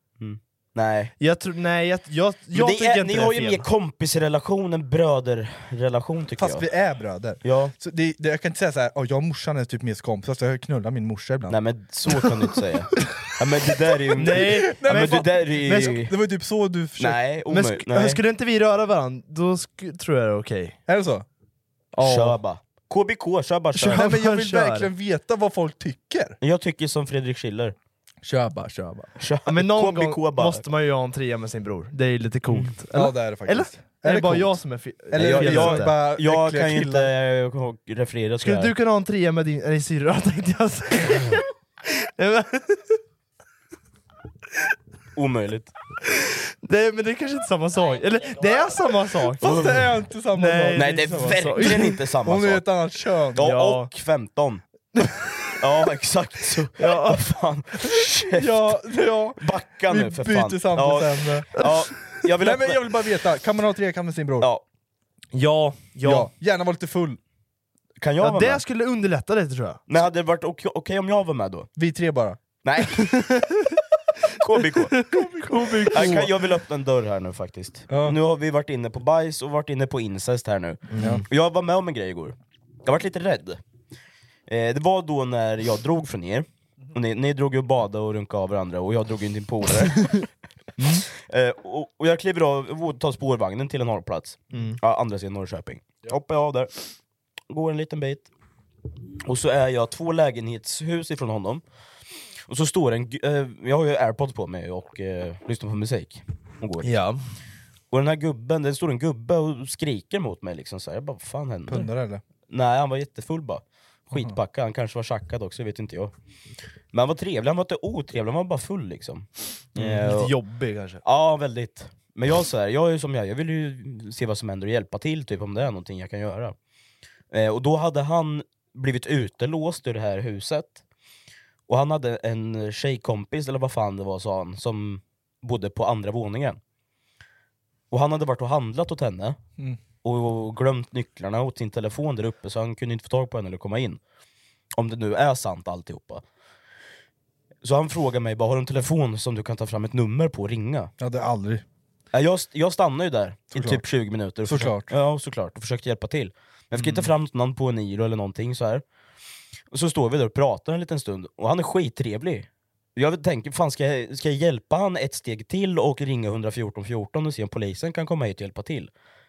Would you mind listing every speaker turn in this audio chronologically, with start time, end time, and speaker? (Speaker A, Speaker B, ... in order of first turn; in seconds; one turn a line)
Speaker A: 0.2-1.1
Speaker B: 1.2-3.6
Speaker A: 2.5-6.6
Speaker C: 6.4-11.6
Speaker A: 7.4-7.7
Speaker A: 11.5-16.1
Speaker B: 14.2-15.2
Speaker C: 14.4-17.2
Speaker A: 17.0-18.2
Speaker B: 17.5-20.8
Speaker C: 20.9-21.2
Speaker B: 21.9-22.4
Speaker A: 22.0-24.1
Speaker B: 23.8-24.9
Speaker C: 23.8-26.4
Speaker A: 26.4-27.7
Speaker C: 28.2-29.1
Speaker A: 29.2-30.6
Speaker B: 29.5-36.0
Speaker C: 32.9-34.6
Speaker C: 35.1-37.1
Speaker A: 35.2-38.7
Speaker B: 38.4-43.0
Speaker A: 45.1-45.7
Speaker B: 46.2-49.7
Speaker C: 49.4-51.7
Speaker A: 49.4-49.9
Speaker B: 50.3-52.0
Speaker A: 50.7-52.6
Speaker C: 52.2-53.5
Speaker A: 53.4-54.6
Speaker B: 53.4-53.9
Speaker A: 55.6-58.8
Speaker B: 56.8-57.2
Speaker C: 58.4-61.5
Speaker A: 59.4-62.8
Speaker C: 62.4-64.5
Speaker B: 65.3-66.3
Speaker C: 66.0-67.2
Speaker A: 68.0-68.6
Speaker B: 68.2-69.8
Speaker A: 69.9-71.7
Speaker C: 71.8-72.4
Speaker A: 72.6-73.1
Speaker B: 73.0-73.8
Speaker A: 74.4-75.0
Speaker B: 75.0-76.3
Speaker C: 75.2-76.3
Speaker A: 75.9-83.6
Speaker C: 77.9-78.2
Speaker B: 80.9-81.2
Speaker C: 81.0-81.2
Speaker A: 84.5-90.2
Speaker B: 90.8-91.0
Speaker A: 91.2-96.7
Speaker B: 94.5-94.8
Speaker A: 97.5-98.3
Speaker A: 99.2-101.6
Speaker A: 102.5-106.9
Speaker B: 106.8-107.2
Speaker A: 107.9-111.9
Speaker C: 111.7-112.2
Speaker A: 112.5-116.1
Speaker A: 116.9-120.3
Speaker B: 119.8-121.0
Speaker A: 121.0-126.5
Speaker A: 127.3-130.8
Speaker A: 131.7-136.6
Speaker A: 137.9-139.4
Speaker A: 140.0-144.0
Speaker A: 144.7-146.2
Speaker A: 147.6-150.9
Speaker C: 151.0-151.6
Speaker A: 152.1-158.8
Speaker C: 153.5-153.8
Speaker C: 154.4-154.9
Speaker C: 156.7-157.1
Speaker A: 159.7-168.9